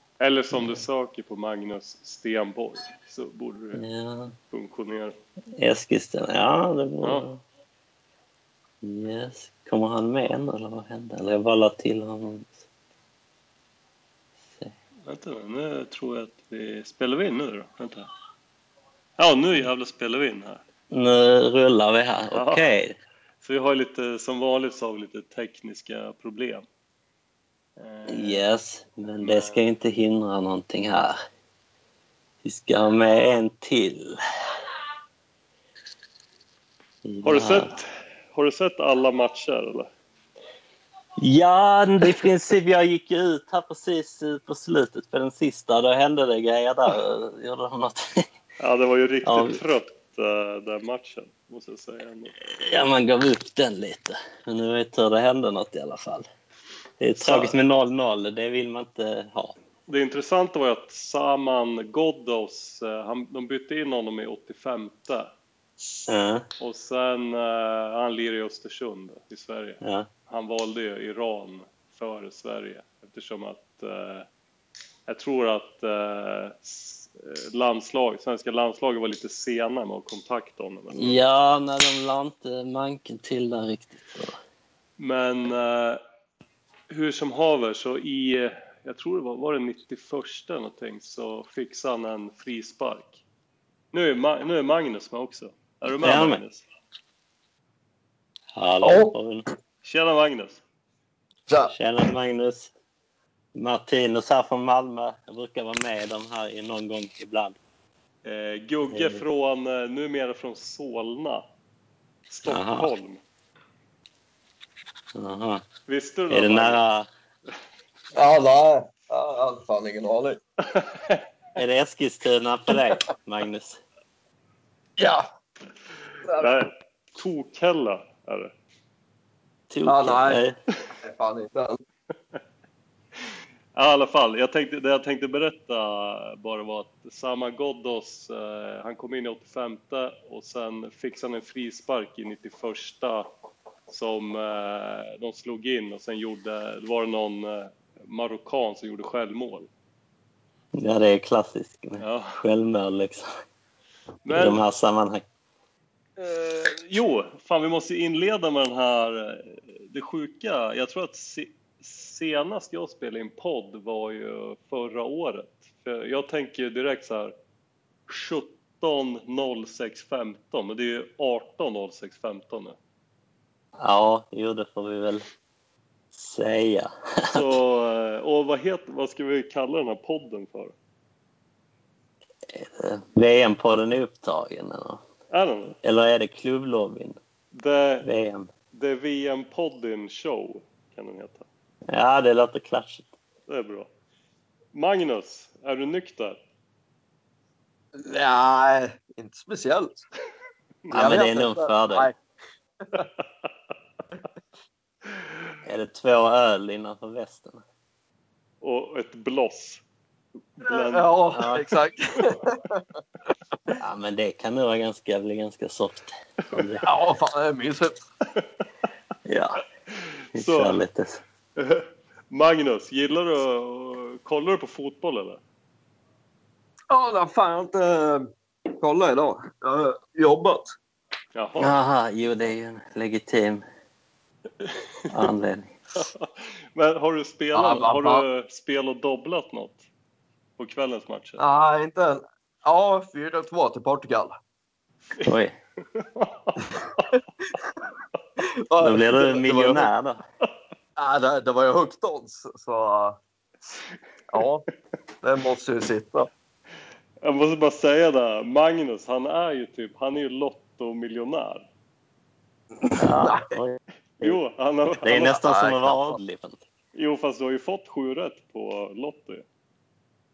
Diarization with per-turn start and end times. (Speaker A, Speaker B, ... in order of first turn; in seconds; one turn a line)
Speaker A: 0.2-3.8
Speaker B: 0.5-0.8
Speaker B: 3.7-4.3
Speaker A: 4.5-5.2
Speaker B: 5.6-7.4
Speaker B: 8.8-12.6
Speaker A: 15.1-18.1
Speaker A: 19.2-20.6
Speaker B: 20.9-23.0
Speaker A: 22.3-22.6
Speaker A: 23.4-26.6
Speaker A: 27.8-28.4
Speaker B: 28.1-31.2
Speaker A: 29.2-29.6
Speaker B: 32.4-34.2
Speaker B: 37.0-37.7
Speaker A: 37.2-39.9
Speaker B: 41.2-48.2
Speaker A: 48.6-52.3
Speaker B: 49.2-49.6
Speaker B: 52.4-56.3
Speaker B: 57.0-59.5
Speaker A: 57.2-57.5
Speaker A: 59.9-65.3
Speaker B: 66.1-66.4
Speaker A: 66.6-74.2
Speaker B: 69.8-70.1
Speaker A: 75.1-81.2
Speaker B: 80.9-84.4
Speaker A: 85.0-86.0
Speaker A: 86.9-93.2
Speaker A: 93.9-96.6
Speaker B: 95.9-96.4
Speaker B: 98.5-99.5
Speaker C: 98.8-99.1
Speaker A: 99.8-100.6
Speaker C: 101.5-101.7
Speaker B: 101.7-102.7
Speaker B: 103.5-107.5
Speaker A: 108.2-111.4
Speaker B: 108.9-109.2
Speaker A: 112.3-113.2
Speaker B: 112.5-112.9
Speaker B: 115.1-115.6
Speaker A: 115.9-116.8
Speaker B: 116.3-117.1
Speaker C: 118.1-120.4
Speaker A: 120.7-121.2
Speaker B: 121.5-123.8
Speaker C: 125.0-125.3
Speaker A: 126.3-128.5
Speaker B: 129.7-130.6
Speaker C: 129.8-130.4
Speaker C: 131.0-131.8
Speaker A: 133.7-143.3
Speaker A: 143.9-149.7
Speaker B: 150.7-153.3
Speaker A: 152.0-152.4
Speaker A: 154.2-154.6
Speaker B: 154.3-155.2
Speaker A: 156.2-167.3
Speaker A: 168.1-172.8
Speaker B: 173.8-175.2
Speaker B: 176.1-177.5
Speaker A: 177.3-180.7
Speaker B: 182.5-185.0
Speaker A: 185.3-185.8
Speaker B: 185.8-187.2
Speaker A: 187.5-188.1
Speaker B: 188.0-188.5
Speaker A: 188.7-191.5
Speaker B: 191.9-193.1
Speaker A: 193.5-193.9
Speaker A: 194.7-196.4
Speaker C: 197.9-200.0
Speaker B: 200.9-202.1
Speaker C: 200.9-202.2
Speaker A: 205.0-205.3
Speaker B: 205.6-207.6
Speaker A: 208.6-209.8
Speaker A: 210.6-211.2
Speaker C: 210.6-212.8
Speaker B: 211.3-211.7
Speaker B: 213.8-216.9
Speaker C: 216.8-218.0
Speaker B: 219.2-219.6
Speaker B: 220.3-221.2
Speaker A: 220.3-220.8
Speaker A: 221.6-225.4
Speaker C: 226.9-230.7
Speaker A: 231.3-231.8
Speaker B: 231.6-233.6
Speaker A: 234.6-235.3
Speaker B: 235.1-236.0
Speaker A: 236.0-239.8
Speaker C: 237.5-238.2
Speaker A: 240.6-241.4
Speaker C: 241.4-244.4
Speaker B: 245.2-245.5
Speaker A: 245.9-247.2
Speaker C: 246.8-247.2
Speaker C: 248.4-249.9
Speaker B: 248.8-250.2
Speaker C: 250.9-253.2
Speaker C: 254.3-254.6
Speaker C: 255.2-256.3
Speaker A: 257.2-261.7
Speaker C: 262.8-263.6
Speaker B: 263.0-263.8
Speaker A: 264.2-265.3
Speaker B: 265.0-266.6
Speaker C: 265.2-266.2
Speaker A: 266.9-269.4